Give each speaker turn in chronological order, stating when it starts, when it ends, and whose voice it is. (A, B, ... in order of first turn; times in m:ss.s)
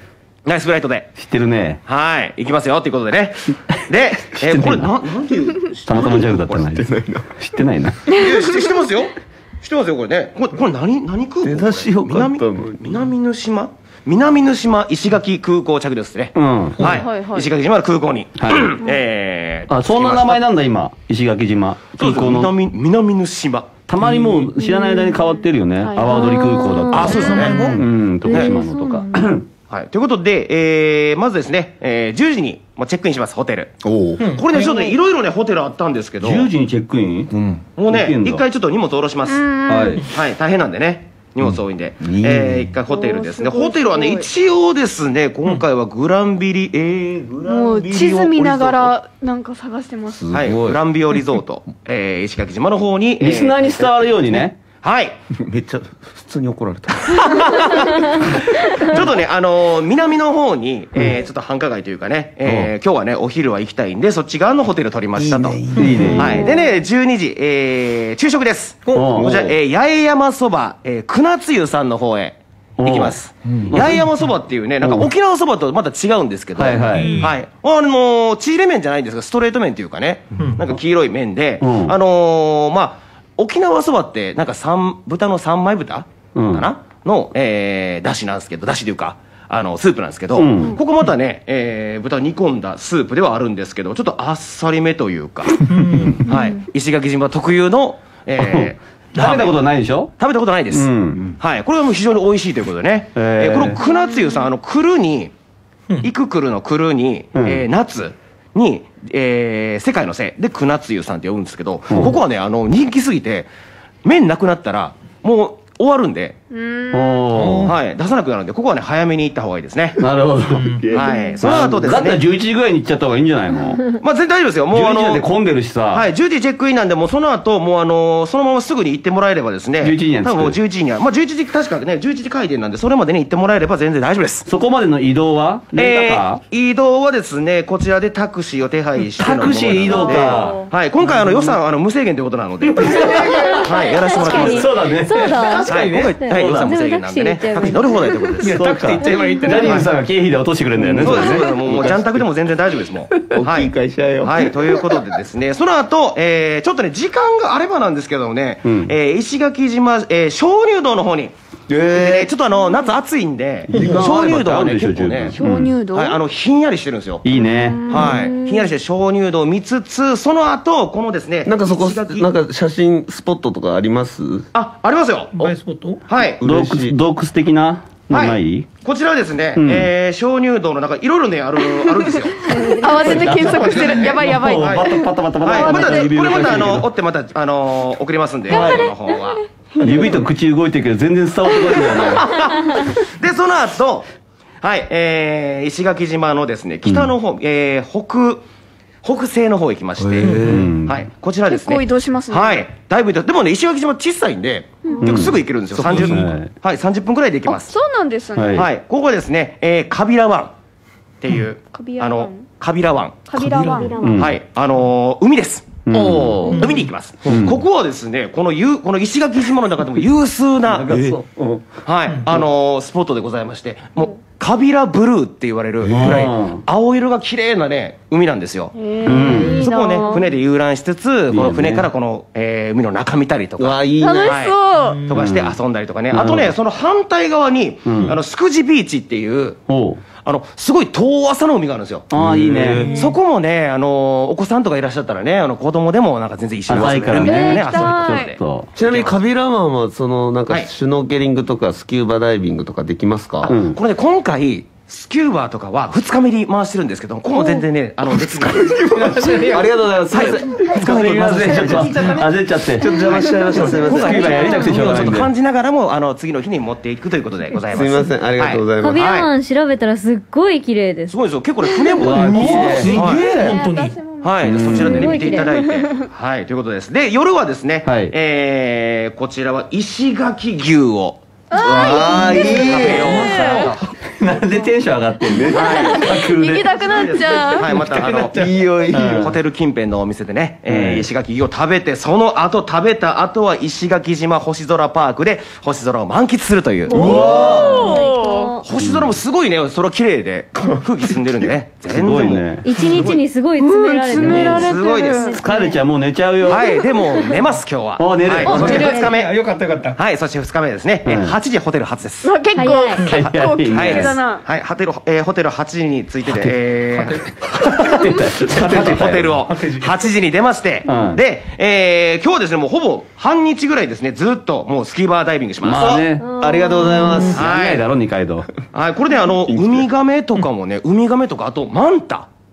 0:00.4-0:01.1 A
0:01.2-0:01.8 B
0:01.8-0:05.3 A
0:04.2-0:05.0 B
0:04.6-0:07.6 C
0:05.8-0:08.0 B
0:08.1-0:08.4 D
0:08.1-0:20.4 A
0:11.4-0:12.9 C
0:16.3-0:16.8 B
0:16.8-0:17.0 E
0:16.8-0:17.5 D
0:18.4-0:18.8 B
0:19.7-0:22.5 B
0:22.0-0:23.7 A
0:23.9-0:29.4 B
0:24.0-0:24.4 E
0:24.7-0:25.1 F
0:25.8-0:26.4 D
0:26.1-0:27.7 F
0:26.9-0:28.5 A
0:27.1-0:27.8 E
0:28.2-0:29.2 F
0:29.7-0:33.8 A
0:33.8-0:34.2 C
0:34.2-0:34.7 E
0:34.3-0:36.5 A
0:36.2-0:37.3 B
0:37.3-0:37.6 C
0:37.8-0:39.5 A
0:37.8-0:38.4 B
0:39.3-0:40.0 D
0:39.7-0:40.0 B
0:40.0-0:48.9 A
0:41.4-0:42.8 C
0:42.9-0:44.3 D
0:47.4-0:50.3 D
0:47.8-0:48.7 C
0:50.1-0:50.8 C
0:50.3-0:55.2 A
0:53.2-0:54.6 B
0:55.4-0:57.5 C
0:57.2-1:35.6 A
1:05.2-1:06.5 C
1:05.7-1:06.4 E
1:05.8-1:06.4 B
1:08.8-1:09.2 E
1:08.9-1:09.5 B
1:09.1-1:09.6 C
1:12.8-1:14.1 B
1:14.8-1:15.1 B
1:16.6-1:17.3 B
1:16.8-1:17.3 E
1:21.6-1:21.9 B
1:26.3-1:26.7 B
1:30.3-1:30.8 B
1:35.6-1:36.2 E
1:36.2-1:39.6 A
1:38.4-1:40.1 B
1:40.2-1:45.3 A
1:40.7-1:41.2 B
1:43.1-1:43.8 B
1:43.8-1:44.5 D
1:46.0-1:53.5 A
1:47.3-1:47.6 B
1:51.9-1:52.2 B
1:54.0-1:56.4 A
1:56.5-1:57.3 D
1:56.9-1:57.7 B
1:57.3-1:57.8 E
1:57.6-2:00.0 A
2:00.0-2:03.9 B
2:00.5-2:00.8 E
2:00.9-2:01.6 D
2:00.9-2:02.2 A
2:04.0-2:05.3 A
2:04.7-2:06.1 B
2:05.9-2:14.5 A
2:09.8-2:10.6 B
2:14.4-2:16.4 B
2:15.7-2:24.7 A
2:19.2-2:20.6 B
2:19.8-2:20.7 D
2:22.6-2:23.9 E
2:22.9-2:23.6 B
2:23.3-2:28.4 F
2:24.2-2:25.3 B
2:25.1-2:26.1 E
2:25.6-2:28.6 A
2:28.4-2:29.8 E
2:28.5-2:31.5 B
2:30.8-2:32.2 C
2:31.0-2:41.3 A
2:33.3-2:34.9 C
2:38.6-2:38.9 B
2:41.7-2:42.3 C
2:41.9-2:47.3 A
2:43.7-2:45.7 B
2:43.7-2:44.4 C
2:45.4-2:46.2 D
2:47.2-2:47.9 B
2:47.4-2:48.5 F
2:47.9-2:52.2 A
2:51.4-2:54.5 C
2:54.5-2:55.6 A
2:55.3-2:56.0 E
2:56.1-2:56.4 A
2:56.2-2:57.0 C
2:56.4-2:58.7 B
2:58.1-3:09.4 A
2:59.6-2:59.9 B
3:02.4-3:06.1 D
3:03.0-3:06.9 B
3:08.5-3:08.9 D
3:09.8-3:10.2 D
3:09.8-3:12.4 B
3:11.6-3:14.1 A
3:14.6-3:18.4 A
3:16.8-3:17.1 B
3:19.0-3:27.7 A
3:20.0-3:20.7 C
3:20.4-3:21.0 B
3:21.5-3:22.7 D
3:25.0-3:26.5 B
3:25.9-3:26.3 C
3:27.4-3:28.7 D
3:28.3-3:28.7 B
3:28.5-3:30.5 A
3:31.2-3:41.0 A
3:31.6-3:32.5 D
3:33.3-3:34.2 D
3:34.0-3:34.4 B
3:35.8-3:36.4 B
3:35.9-3:36.7 C
3:37.2-3:37.5 C
3:37.3-3:37.6 B
3:40.7-3:42.4 B
3:40.9-3:41.2 C
3:41.8-3:59.6 A
3:45.8-3:46.6 B
3:48.8-3:50.3 D
3:49.0-3:49.6 B
3:49.3-3:50.1 F
3:51.3-3:51.9 B
3:53.6-3:54.5 C
3:54.0-3:55.0 D
3:54.8-3:55.2 E
3:55.1-3:55.6 B
3:56.1-3:56.5 B
3:57.8-3:58.2 B
3:59.7-4:00.0 B
4:00.2-4:02.1 A
4:02.1-4:02.9 B
4:02.2-4:03.0 C
4:02.6-4:09.1 A
4:06.7-4:08.7 B
4:07.2-4:08.3 D
4:07.2-4:07.8 F
4:08.7-4:13.5 C
4:13.4-4:19.5 A
4:13.4-4:13.8 B
4:18.0-4:22.1 C
4:19.1-4:19.7 E
4:20.1-4:20.4 A
4:20.2-4:22.3 E
4:20.2-4:25.3 B
4:22.7-4:25.2 C
4:23.1-4:29.3 A
4:23.5-4:24.2 E
4:27.7-4:29.1 C
4:28.8-4:32.0 F
4:31.1-4:33.3 A
4:32.0-4:33.0 B
4:32.2-4:33.6 C
4:32.3-4:34.0 E
4:32.4-4:34.8 D
4:34.2-4:41.2 A
4:34.4-4:35.2 B
4:34.6-4:35.8 F
4:37.8-4:38.1 B
4:41.5-4:43.7 D
4:41.6-4:43.6 C
4:41.8-4:43.9 A
4:44.2-4:49.4 B
4:45.3-4:46.0 C
4:45.3-4:47.7 D
4:46.9-4:57.2 A
4:47.9-4:49.3 C
4:50.7-4:51.1 B
4:56.9-4:57.9 C
4:56.9-4:58.6 F
4:56.9-4:58.6 D
4:58.6-5:03.2 A
4:58.8-4:59.2 B
5:00.5-5:01.5 C
5:01.9-5:02.7 B
5:02.6-5:05.8 F
5:03.6-5:05.4 D
5:04.1-5:05.3 A
5:04.2-5:04.6 B
5:05.4-5:06.7 B
5:06.4-5:09.4 A
5:07.0-5:07.4 F
5:08.0-5:08.8 B
5:08.4-5:10.0 E
5:08.6-5:09.2 D
5:08.6-5:09.1 F
5:09.9-5:12.3 A
5:11.0-5:11.3 B
5:12.2-5:14.4 D
5:12.6-5:13.0 F
5:13.0-5:14.2 B
5:13.7-5:17.2 A
5:16.9-5:17.4 E
5:17.5-5:19.4 B
5:18.5-5:26.0 A
5:19.4-5:20.0 E
5:20.8-5:21.2 B
5:25.6-5:26.3 B
5:25.7-5:27.4 C
5:26.2-5:27.4 F
5:27.3-5:27.8 A
5:27.4-5:28.5 B
5:28.7-5:32.3 A
5:29.4-5:29.9 C